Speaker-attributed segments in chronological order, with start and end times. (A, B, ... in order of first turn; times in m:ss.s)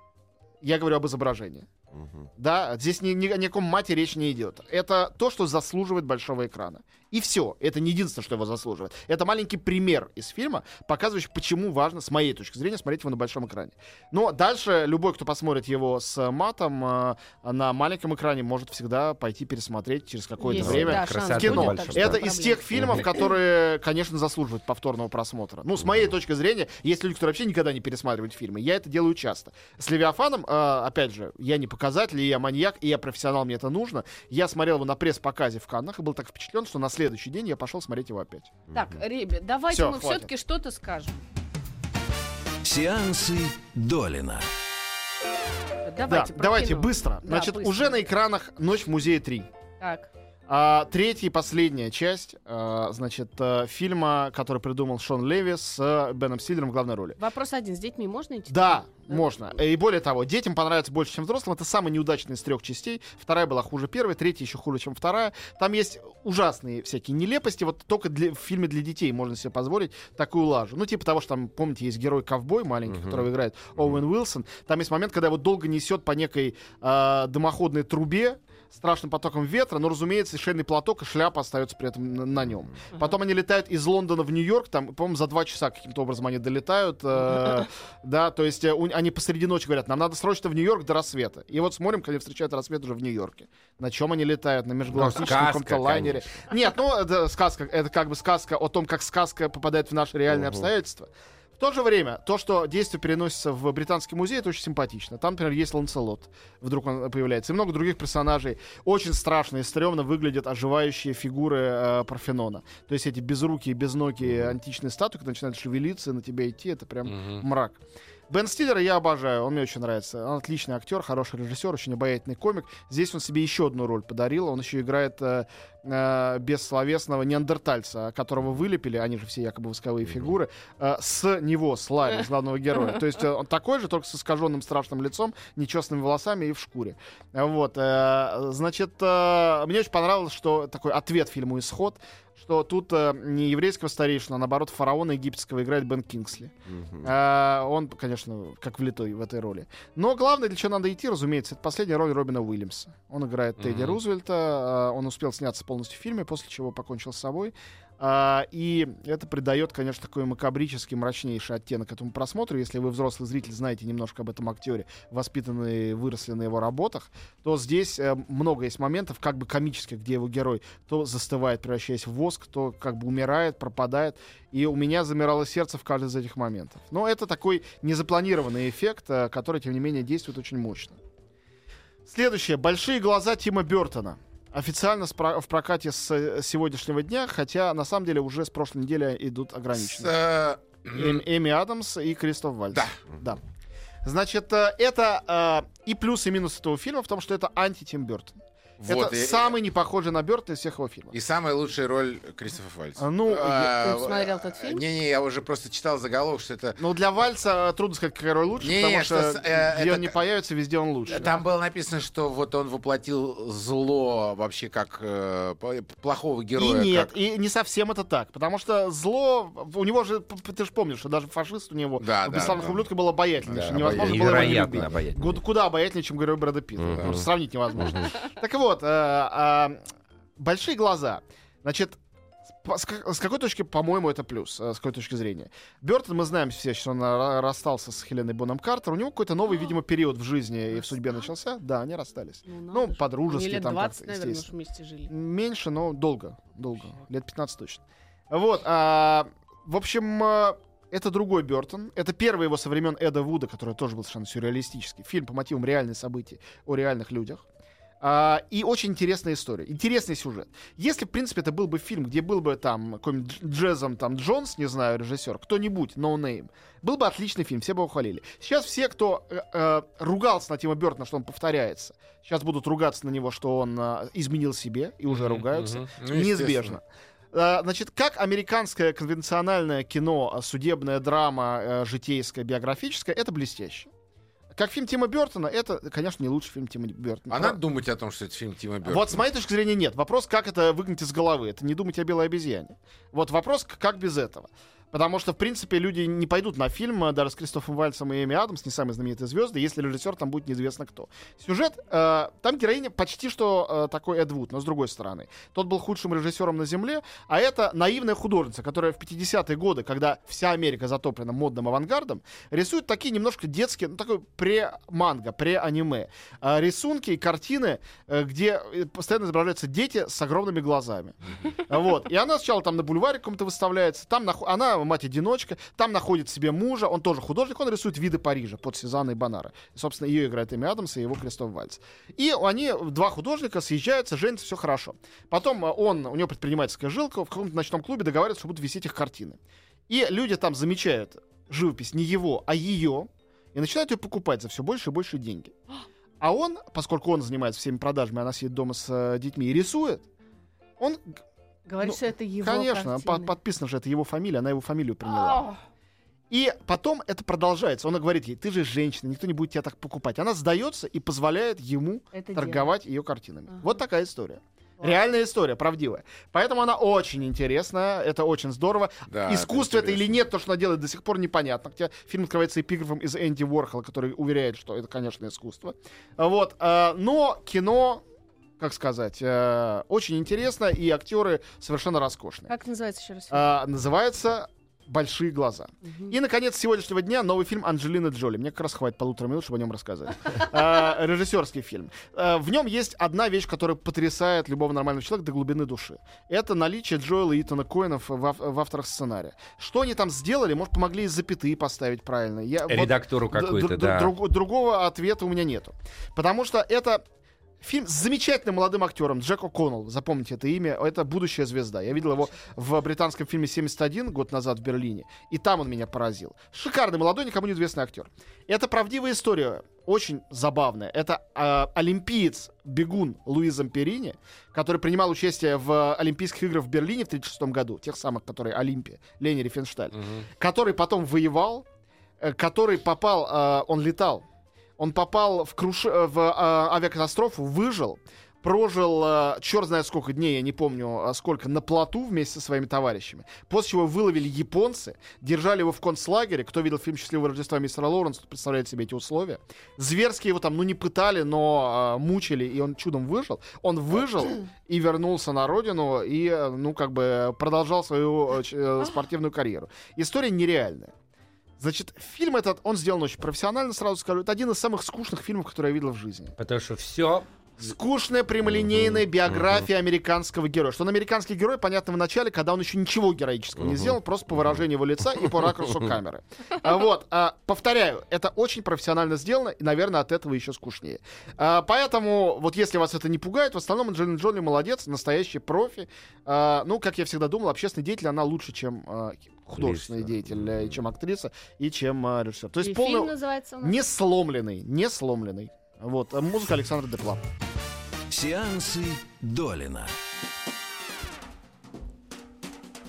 0:00.6-0:01.7 A
0:02.4-0:38.5 A
0:20.4-0:22.6 B
0:20.5-0:22.2 C
0:22.7-0:23.0 C
0:38.7-0:41.2 B
0:38.7-0:39.0 C
0:39.7-0:40.3 A
0:42.6-0:44.5 D
0:45.8-0:48.0 B
0:46.1-0:49.5 A
0:49.8-0:50.1 B
0:50.5-0:57.2 A
0:57.2-0:59.3 B
0:58.5-3:01.0 A
1:12.9-1:13.2 C
1:34.9-1:36.4 C
1:40.3-1:40.7 C
1:57.0-1:57.4 E
2:26.7-2:27.1 C
2:33.6-2:34.0 E
3:02.1-3:10.1 A
3:09.8-3:11.2 E
3:10.9-3:13.4 A
3:12.7-3:13.0 E
3:14.0-3:21.1 A
3:18.8-3:19.5 E
3:21.1-3:26.8 E
3:23.0-3:23.9 A
3:23.8-3:24.8 B
3:26.8-3:31.3 A
3:28.6-3:30.1 E
3:31.1-3:37.1 E
3:36.6-3:49.8 A
3:42.0-3:42.8 E
3:43.5-3:44.8 E
3:43.5-3:45.4 C
3:46.8-3:48.1 C
3:47.0-3:47.2 E
3:50.4-3:52.0 A
3:52.6-4:04.5 A
4:02.5-4:05.1 B
4:05.1-4:17.4 A
4:18.0-4:43.9 A
4:35.1-4:36.8 E
4:44.5-4:47.6 A
4:47.3-4:49.2 E
4:48.8-5:39.4 A
5:39.9-5:45.5 A
5:46.2-5:50.0 A
5:50.8-5:51.2 A
5:51.6-5:53.3 B
5:51.8-5:55.4 A
5:55.0-5:55.6 B
5:56.3-6:18.0 A
6:02.1-6:02.7 B
6:09.1-6:10.2 E
6:18.6-6:22.5 A
6:22.5-6:23.5 B
6:23.3-6:47.0 A
6:25.9-6:26.1 B
6:42.6-6:44.1 C
6:47.6-7:11.6 A
7:10.0-7:10.2 E
7:12.2-7:14.2 A
7:14.8-7:40.9 A
7:41.6-7:46.4 A
7:46.4-7:47.3 C
7:47.6-8:17.2 A
7:53.6-7:54.0 C
8:09.6-8:10.7 C
8:12.6-8:13.8 B
8:18.1-8:19.9 D